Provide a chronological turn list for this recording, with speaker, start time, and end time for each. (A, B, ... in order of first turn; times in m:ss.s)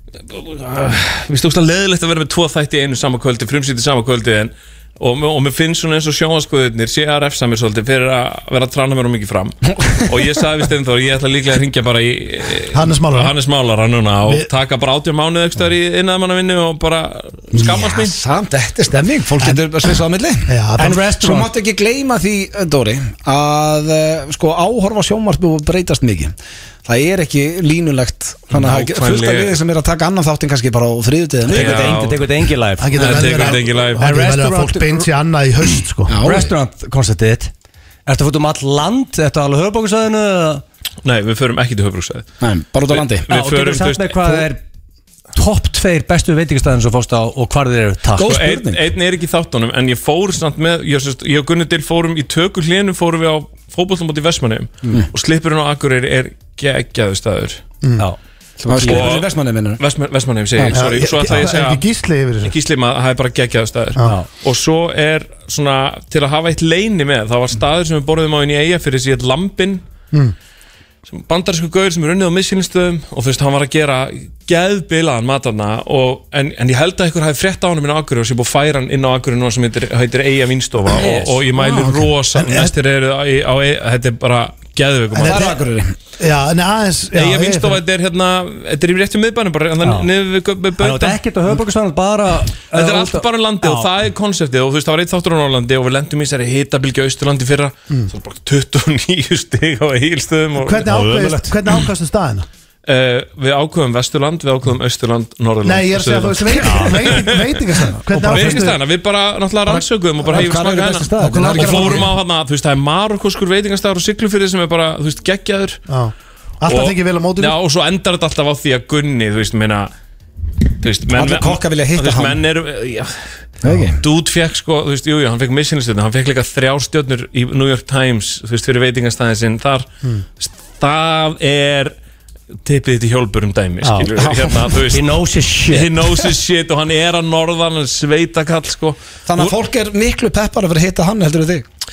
0:00.2-0:18.2 A
0:12.7-0:13.4 B
0:17.6-0:20.5 C
0:20.5-0:21.1 B
0:20.8-0:21.5 D
0:21.2-0:26.3 C
0:26.8-0:32.0 C
0:28.5-0:29.5 A
0:31.4-0:35.1 D
0:31.5-0:32.3 A
0:32.8-0:36.2 B
0:33.0-0:34.1 A
0:36.1-0:36.5 C
0:36.2-0:37.5 D
0:38.0-0:40.6 D
0:41.0-0:42.3 A
0:42.4-0:43.2 C
0:42.9-0:44.5 A
0:43.3-0:44.6 D
0:45.3-0:48.4 D
0:48.2-0:48.8 C
0:48.2-0:57.6 A
0:57.8-0:58.1 B
0:58.6-0:59.8 C
0:58.7-0:59.1 D
0:58.8-1:01.8 A
1:00.7-1:02.6 B
1:02.4-1:09.8 A
1:11.1-1:25.5 A
1:20.9-1:21.4 D
1:21.6-1:22.1 C
1:22.3-1:22.7 B
1:25.1-1:25.6 B
1:25.2-1:25.9 C
1:26.2-1:27.8 B
1:27.1-1:31.2 A
1:29.8-1:30.1 D
1:30.8-1:33.9 D
1:32.7-1:40.9 A
1:40.6-1:42.5 B
1:40.8-1:41.6 D
1:42.8-1:55.8 A
1:45.6-1:48.8 B
1:46.6-1:47.2 D
1:48.1-1:48.7 D
1:49.6-1:50.5 B
1:50.2-1:52.1 C
1:51.2-1:52.1 B
1:55.9-1:57.6 B
1:56.7-1:59.9 A
2:00.7-2:03.2 A
2:01.1-2:02.4 C
2:03.6-2:04.0 C
2:04.0-2:09.9 A
2:10.4-2:11.9 A
2:12.6-2:15.1 A
2:13.8-2:14.1 D
2:14.2-2:14.5 C
2:14.9-2:16.3 D
2:15.7-2:19.6 A
2:19.2-2:21.6 C